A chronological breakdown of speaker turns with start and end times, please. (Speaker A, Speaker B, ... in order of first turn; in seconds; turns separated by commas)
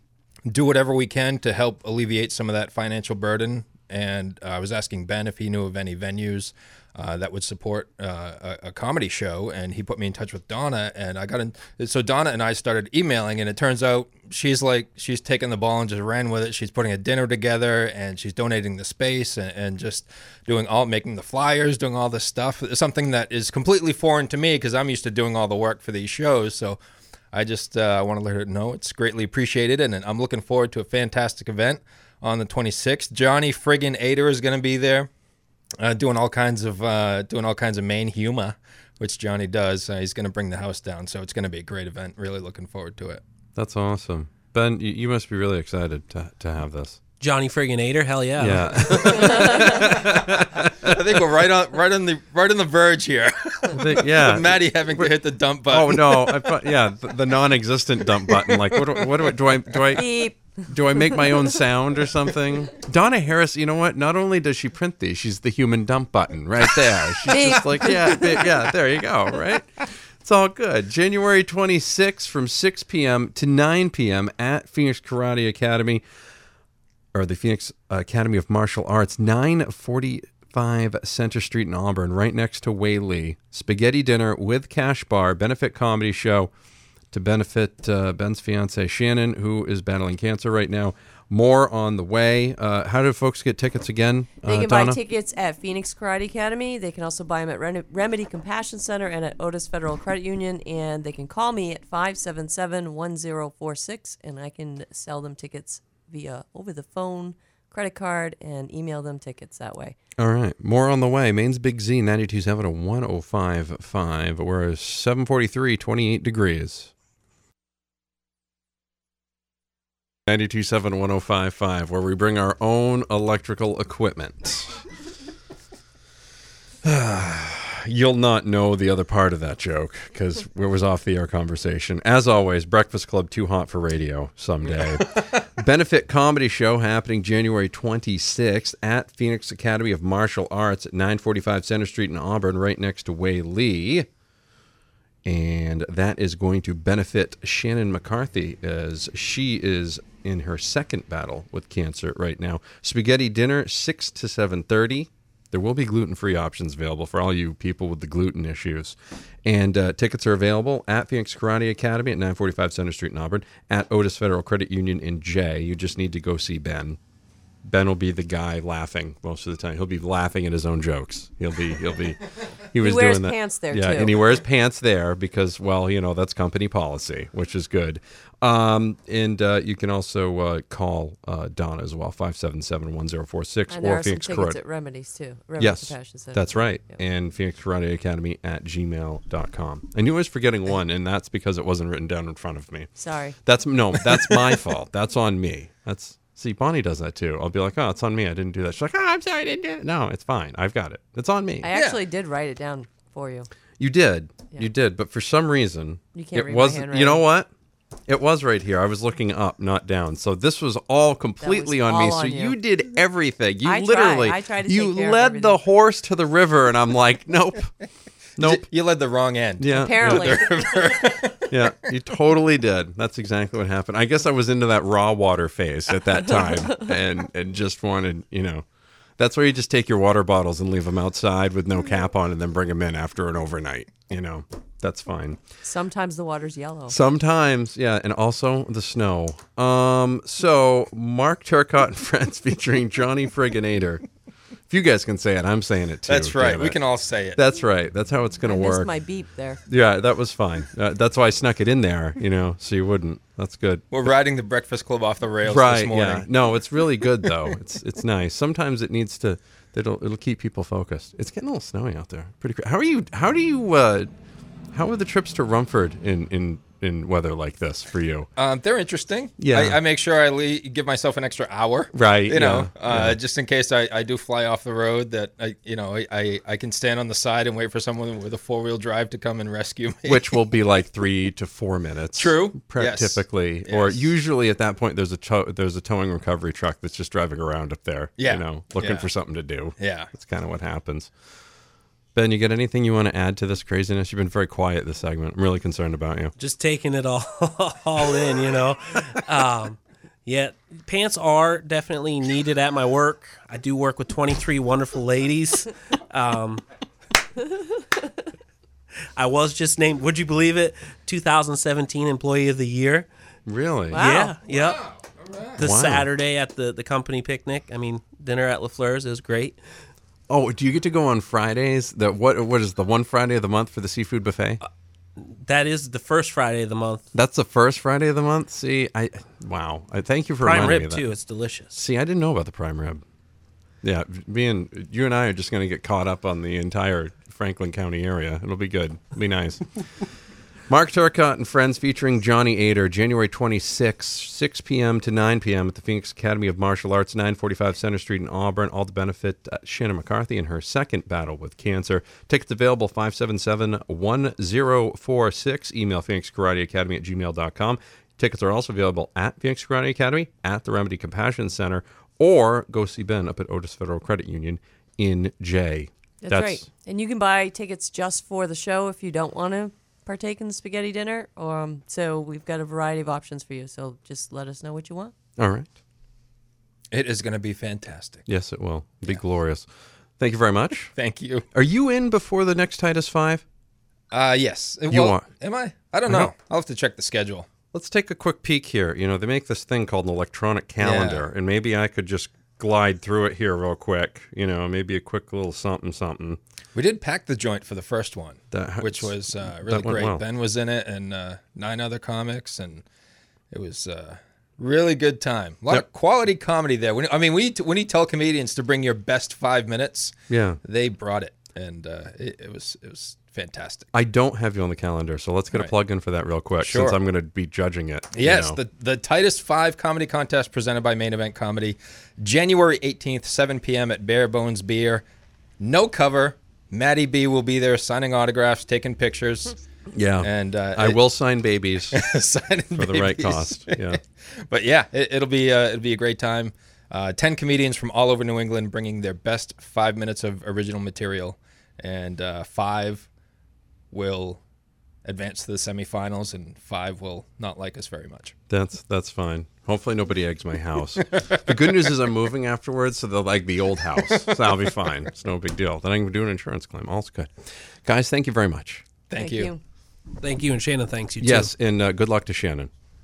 Speaker A: 0.5-26.8, Speaker A: 27.3-35.1, Speaker A: 35.8-43.2, Speaker B: 43.5-47.0, Speaker C: 47.2-49.2, Speaker B: 48.4-51.0, Speaker A: 48.9-50.2, Speaker A: 50.8-56.4, Speaker B: 53.7-60.0, Speaker D: 59.9-61.3, Speaker B: 60.7-76.0, Speaker D: 67.3-68.5, Speaker B: 77.1-86.5, Speaker B: 87.1-95.0, Speaker D: 94.4-110.0, Speaker B: 110.2-116.9, Speaker B: 120.3-124.8, Speaker B: 126.8-144.1, Speaker B: 145.2-167.0, Speaker B: 167.6-184.6, Speaker D: 172.8-174.2, Speaker D: 183.7-187.0, Speaker B: 185.6-192.9, Speaker D: 193.0-193.4, Speaker B: 193.4-201.7, Speaker D: 201.6-203.5, Speaker A: 201.7-202.0, Speaker B: 203.8-207.5, Speaker D: 206.1-207.2, Speaker B: 208.1-217.7, Speaker D: 211.4-212.6, Speaker D: 213.6-215.6, Speaker B: 218.4-218.7, Speaker A: 218.4-221.5, Speaker B: 219.6-220.4, Speaker D: 219.7-220.5, Speaker B: 221.5-228.6, Speaker B: 229.2-235.4, Speaker D: 235.6-237.0, Speaker B: 236.9-244.0, Speaker B: 244.7-246.8, Speaker A: 246.1-247.4, Speaker B: 247.3-248.9, Speaker D: 248.4-249.6, Speaker B: 249.7-254.1, Speaker A: 253.9-256.3, Speaker B: 255.4-264.1, Speaker B: 264.7-268.3, Speaker A: 268.4-280.4, Speaker B: 269.4-269.8, Speaker B: 271.9-273.2, Speaker B: 280.1-291.1, Speaker A: 282.2-284.1, Speaker A: 288.2-289.1, Speaker A: 289.8-290.1, Speaker B: 292.1-296.3, Speaker C: 296.4-306.6, Speaker C: 309.1-313.1, Speaker B: 313.4-314.0, Speaker D: 313.9-314.3, Speaker C: 313.9-314.9, Speaker A: 314.5-315.6, Speaker C: 315.6-319.6, Speaker B: 315.6-316.1, Speaker B: 320.3-324.6, Speaker C: 325.2-327.0, Speaker B: 327.1-331.1, Speaker C: 330.4-331.8, Speaker B: 331.7-333.0, Speaker B: 333.8-339.6, Speaker B: 340.7-366.6, Speaker D: 366.2-375.1, Speaker B: 375.4-375.7, Speaker A: 376.9-378.2, Speaker B: 378.3-379.6, Speaker B: 380.2-380.9, Speaker A: 380.9-381.4, Speaker B: 381.5-383.4, Speaker A: 384.1-387.5, Speaker B: 384.9-385.3, Speaker B: 386.1-386.3, Speaker B: 387.7-396.4, Speaker A: 390.8-391.2, Speaker A: 396.7-402.8, Speaker B: 398.5-400.2, Speaker A: 403.5-410.1, Speaker B: 410.3-410.6, Speaker A: 410.6-413.9, Speaker B: 413.9-418.6, Speaker A: 416.6-417.0, Speaker A: 418.1-425.0, Speaker A: 425.6-429.6, Speaker B: 429.9-432.0, Speaker A: 430.2-431.0, Speaker A: 431.9-434.0, Speaker B: 432.7-434.0, Speaker A: 434.5-443.1, Speaker A: 443.9-444.4, Speaker A: 445.0-448.3, Speaker B: 448.5-457.3, Speaker A: 454.1-454.4, Speaker B: 457.8-458.8, Speaker A: 459.1-459.5, Speaker D: 459.2-459.6, Speaker C: 460.2-461.5, Speaker B: 461.2-462.7